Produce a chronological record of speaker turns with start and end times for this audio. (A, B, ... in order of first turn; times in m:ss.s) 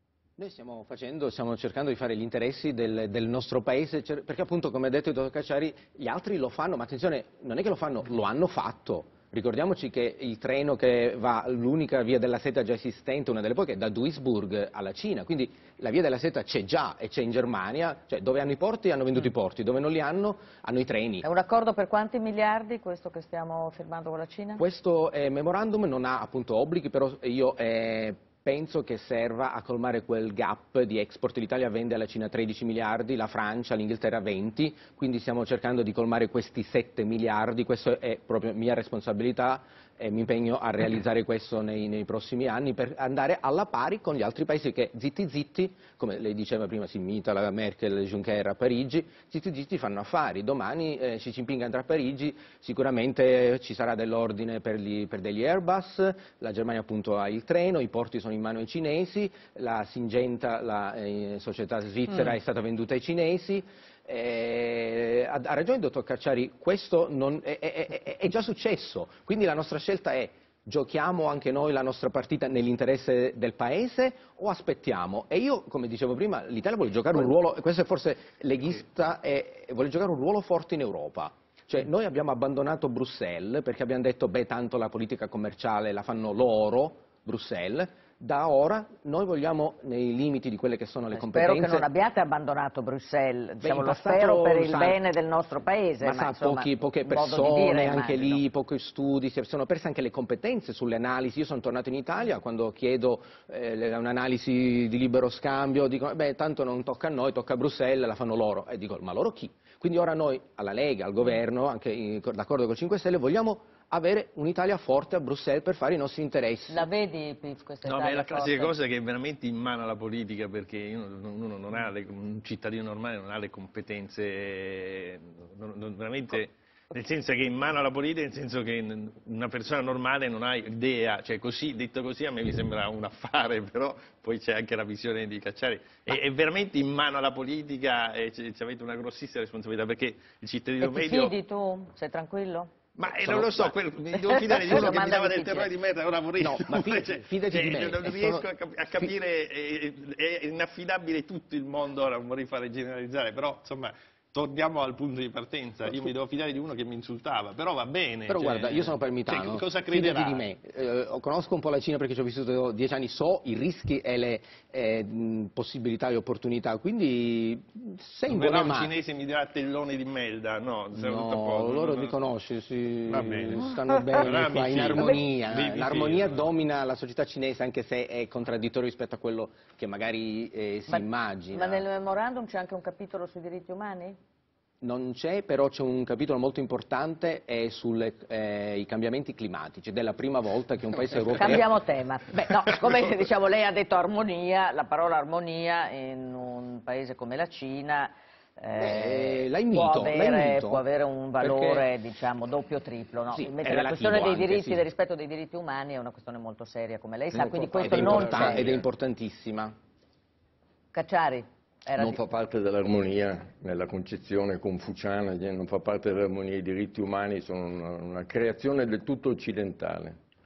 0:00.4-0:21.3 A
0:21.2-0:24.6 B
0:24.6-1:31.9 A
1:31.1-1:38.4 B
1:33.6-1:35.0 A
1:36.0-1:56.9 A
1:56.7-1:58.8 B
1:57.8-2:21.3 C
2:20.8-2:22.7 B
2:23.0-2:40.5 C
2:23.1-2:23.7 A
2:24.3-2:25.7 B
2:26.4-2:28.5 A
2:38.3-2:48.9 A
2:48.3-2:52.2 C
2:50.9-3:01.8 A
2:53.1-2:56.5 C
3:00.9-3:04.2 B
3:04.8-3:11.7 A
3:11.4-3:28.7 B
3:12.3-3:12.8 A
3:18.8-3:20.8 A
3:21.4-3:21.9 A
3:23.3-3:24.8 A
3:27.3-3:29.8 A
3:27.8-3:28.0 D
3:28.1-3:28.8 C
3:30.9-3:32.2 B
3:32.0-3:40.2 D